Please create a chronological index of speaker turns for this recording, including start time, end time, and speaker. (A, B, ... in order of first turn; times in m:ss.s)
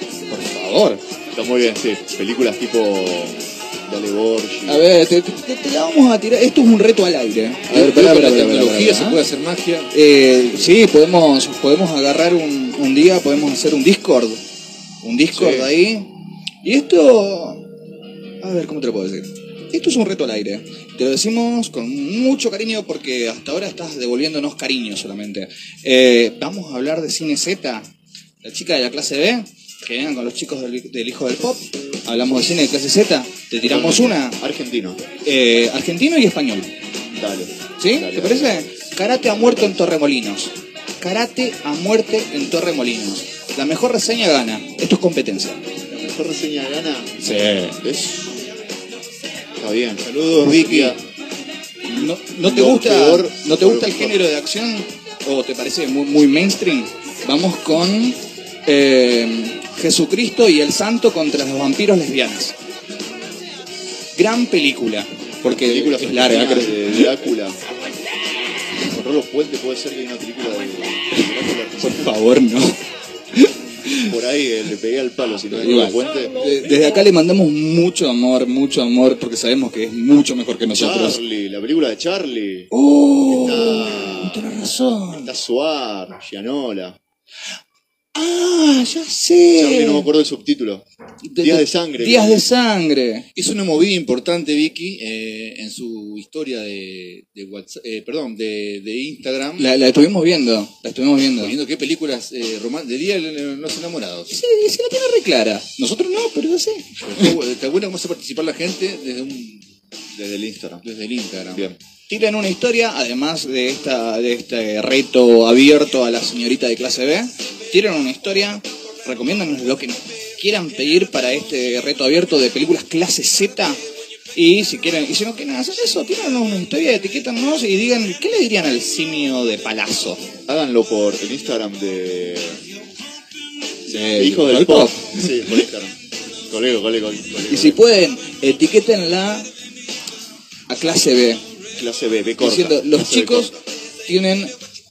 0:00.3-0:01.0 A
0:01.3-0:04.8 B
0:04.7-0:09.2 A
0:07.7-0:09.9 C
0:09.9-0:14.4 A
0:15.0-0:16.1 A
0:15.3-0:15.7 B
0:16.6-0:17.6 A
0:18.4-0:27.9 A
0:28.4-0:34.4 A
0:33.6-0:35.0 B
0:35.2-0:36.7 A
0:37.1-0:39.8 B
0:37.8-0:45.6 A
0:45.9-0:47.2 B
0:47.2-0:47.8 A
0:47.8-0:48.3 B
0:49.6-0:51.0 B
0:50.0-0:51.0 C
0:51.9-0:54.2 B
0:51.9-1:02.5 A
1:04.1-1:07.3 A
1:05.5-1:07.6 B
1:08.8-1:12.2 B
1:11.8-1:12.8 A
1:13.3-1:14.1 A
1:14.0-1:16.3 B
1:15.5-1:21.2 A
1:20.6-1:22.7 B
1:22.7-1:25.3 A
1:23.3-1:24.5 B
1:25.2-1:27.0 B
1:28.1-1:30.1 A
1:29.5-1:30.8 B
1:31.2-1:33.3 A
1:31.4-1:32.4 B
1:33.3-1:39.7 C
1:39.6-1:41.5 A
1:41.4-1:44.4 C
1:44.3-1:47.3 A
1:47.0-1:49.6 C
1:50.1-1:50.8 B
1:50.8-1:51.7 C
1:51.5-1:51.8 B
1:52.1-2:03.8 A
2:04.3-2:10.2 A
2:10.5-2:12.6 B
2:13.9-2:15.6 A
2:14.2-2:15.9 B
2:16.5-2:17.8 B
2:17.5-2:19.5 A
2:20.7-2:21.4 A
2:21.7-2:23.6 B
2:22.4-2:23.5 A
2:24.1-2:24.5 A